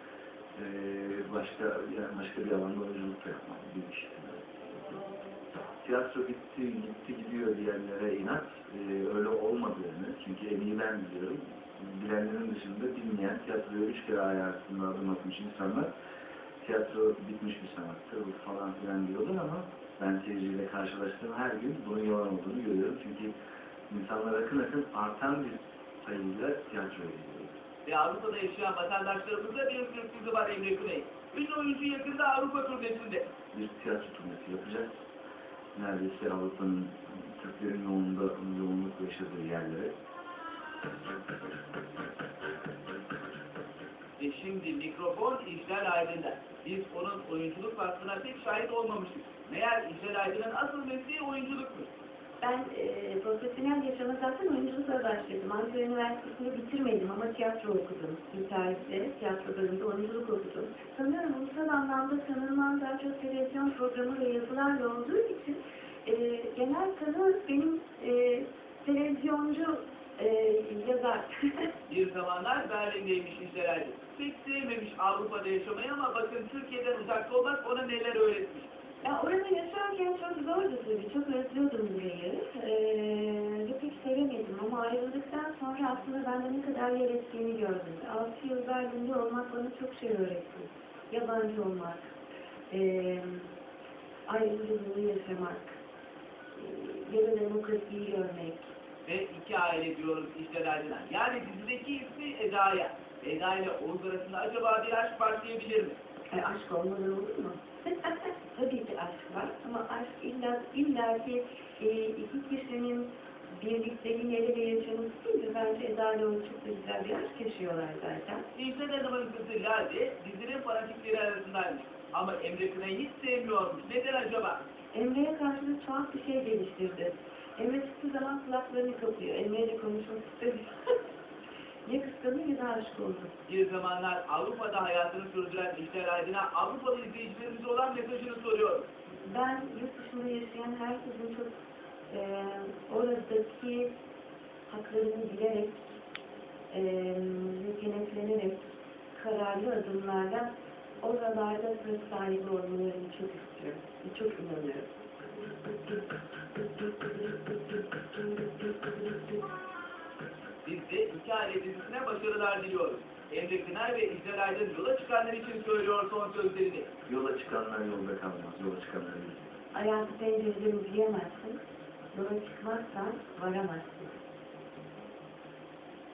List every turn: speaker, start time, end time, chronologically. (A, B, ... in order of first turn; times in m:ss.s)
0:00.5-0:04.5 A
0:05.8-0:15.9 A
0:16.6-0:23.4 A
0:23.9-0:27.5 A
0:27.8-0:33.3 B
0:33.5-0:35.0 A
0:35.7-0:39.9 A
0:44.2-0:51.9 B
0:52.4-1:11.7 C
1:11.9-1:18.7 B
1:19.0-1:32.1 C
1:32.7-1:33.5 C
1:34.3-1:35.8 C
1:36.5-1:38.7 C
1:39.0-1:46.0 B
1:46.3-1:58.4 C
1:58.5-2:04.6 B
2:04.9-2:11.0 C
2:11.8-2:13.3 C
2:13.5-2:18.9 B
2:19.2-2:21.5 C
2:22.1-2:23.9 C
2:24.7-2:26.0 C
2:26.7-2:34.9 C
2:36.6-2:39.3 C
2:40.6-2:46.9 B
2:47.0-2:49.6 A
2:49.7-2:54.2 C